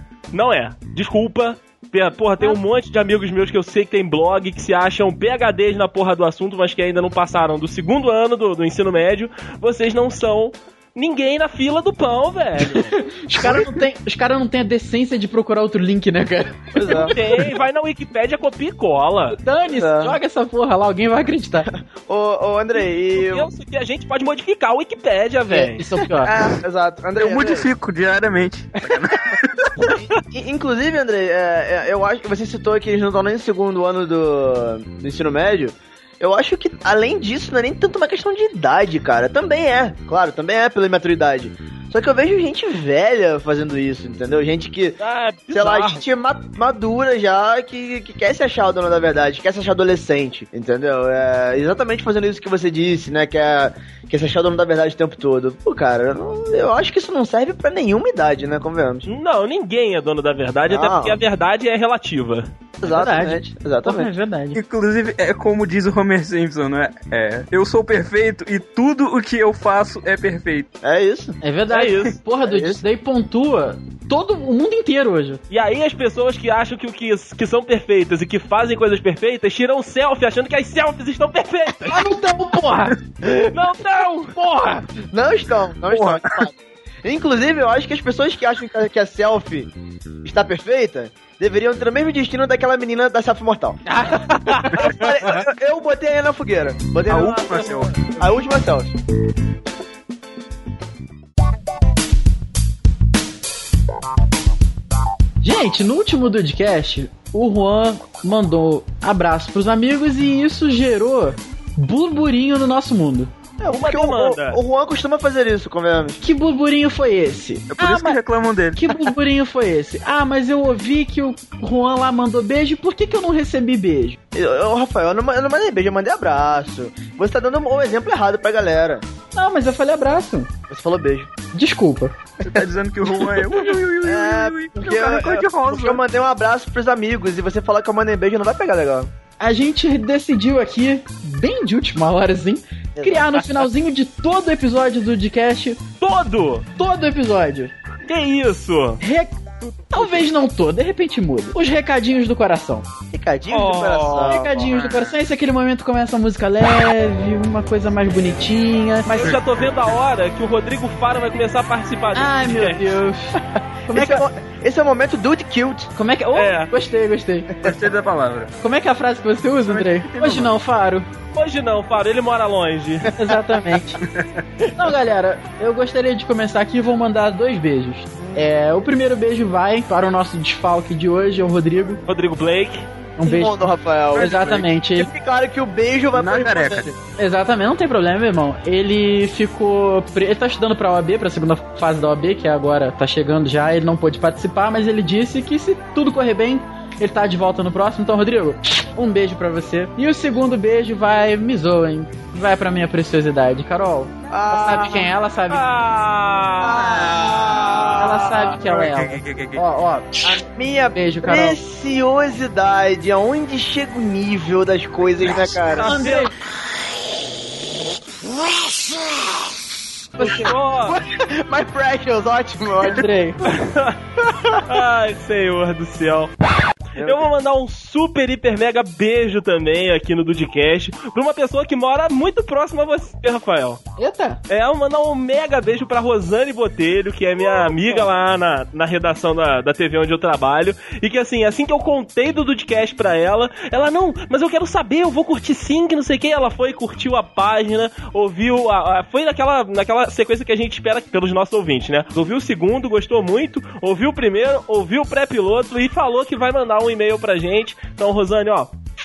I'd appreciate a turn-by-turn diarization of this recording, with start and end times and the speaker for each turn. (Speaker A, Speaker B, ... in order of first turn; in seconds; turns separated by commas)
Speaker A: 0.3-12.9, Speaker B: 12.6-17.1, Speaker C: 16.7-17.1, Speaker A: 16.9-19.4, Speaker B: 19.3-21.7, Speaker C: 19.8-20.2, Speaker C: 22.1-23.5, Speaker A: 22.8-25.8, Speaker C: 25.5-27.7, Speaker B: 25.8-26.3, Speaker D: 27.1-29.9, Speaker C: 29.8-45.0, Speaker A: 45.0-46.0, Speaker C: 45.5-59.1, Speaker A: 59.0-62.5, Speaker C: 60.7-61.2, Speaker C: 62.8-64.1, Speaker B: 62.8-64.6, Speaker D: 64.5-70.7, Speaker C: 70.8-71.4, Speaker B: 71.4-75.4, Speaker A: 71.7-72.2, Speaker C: 72.4-72.8, Speaker A: 75.5-82.0, Speaker B: 81.9-82.9, Speaker A: 83.3-84.8, Speaker C: 85.1-89.7, Speaker D: 85.9-86.5, Speaker C: 90.2-93.8, Speaker A: 94.0-94.9, Speaker C: 94.7-98.9, Speaker D: 97.0-98.0, Speaker B: 105.4-113.3, Speaker C: 113.6-116.2, Speaker A: 113.7-114.6, Speaker B: 116.2-118.2, Speaker D: 117.7-119.1, Speaker B: 118.7-124.2, Speaker C: 124.3-129.0, Speaker B: 129.3-130.5, Speaker C: 130.7-131.3, Speaker B: 131.5-132.1, Speaker D: 132.4-136.0, Speaker C: 132.4-139.1, Speaker B: 139.4-145.8, Speaker C: 143.0-143.4, Speaker A: 146.0-146.7, Speaker B: 146.8-147.7, Speaker A: 148.1-149.0, Speaker B: 149.0-152.8, Speaker C: 149.7-150.2, Speaker C: 153.1-154.6, Speaker A: 153.5-154.4, Speaker B: 154.2-159.3, Speaker D: 154.8-155.1, Speaker A: 159.1-163.0, Speaker B: 162.1-164.2, Speaker C: 163.9-165.9, Speaker B: 165.9-167.5, Speaker A: 166.3-166.7, Speaker D: 167.6-168.5, Speaker B: 168.6-171.1, Speaker D: 169.6-170.5, Speaker A: 171.3-173.1, Speaker B: 173.1-174.0, Speaker D: 174.1-174.4, Speaker B: 174.7-182.0, Speaker C: 178.2-178.5, Speaker A: 182.1-182.9, Speaker B: 183.2-185.1, Speaker C: 183.2-186.9, Speaker D: 184.1-184.7, Speaker D: 186.1-187.0, Speaker B: 187.2-205.7, Speaker C: 204.3-205.1, Speaker A: 205.5-207.6, Speaker C: 206.6-208.1, Speaker B: 207.9-210.1, Speaker D: 208.4-209.6, Speaker C: 210.2-215.9, Speaker B: 210.9-211.6, Speaker D: 215.3-215.5, Speaker A: 215.8-216.3, Speaker B: 215.8-216.3, Speaker A: 220.2-221.0, Speaker C: 220.2-223.1, Speaker B: 222.8-223.4, Speaker A: 223.5-224.0, Speaker A: 224.6-226.3, Speaker A: 226.9-233.8, Speaker B: 234.0-234.4, Speaker A: 234.5-258.7, Speaker B: 237.4-238.1